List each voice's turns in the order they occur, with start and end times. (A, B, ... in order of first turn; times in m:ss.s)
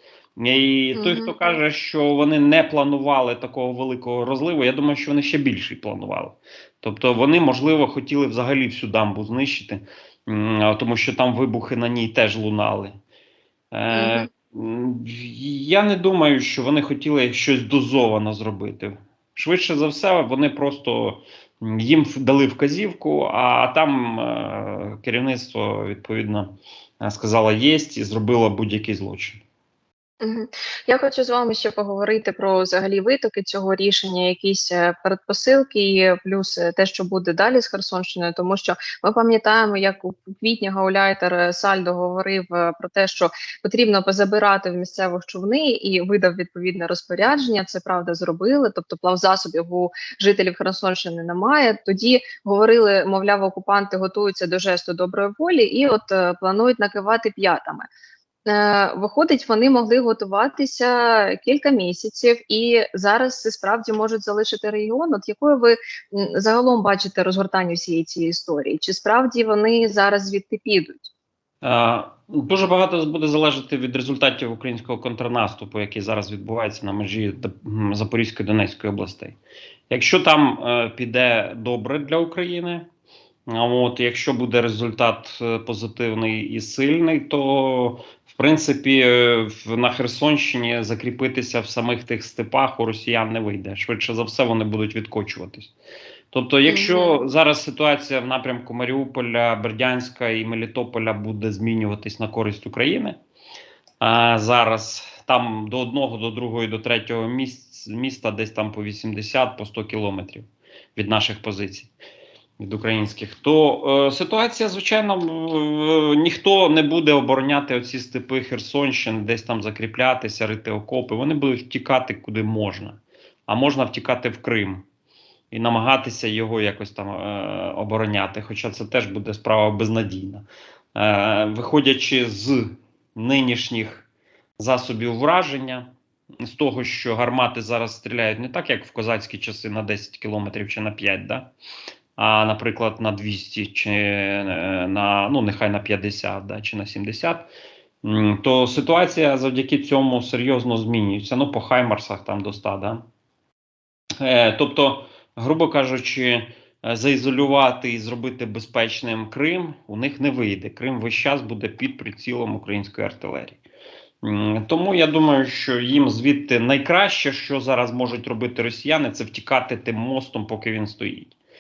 0:00.4-0:12.9 A
0:00.9-0:01.3 B
0:13.7-0:29.4 A
0:13.9-0:14.3 B
0:30.2-0:57.9 B
0:58.4-1:11.1 B
1:11.6-1:19.4 A
1:19.9-1:22.9 A
1:23.5-1:35.7 A
1:36.3-1:43.2 A
1:36.7-1:37.2 B
1:44.0-1:51.9 A
1:52.6-2:04.8 A
2:05.5-2:15.9 A
2:16.4-2:21.5 A
2:22.2-2:27.5 A
2:28.0-2:33.0 A
2:34.2-2:43.6 A
2:44.2-2:51.4 A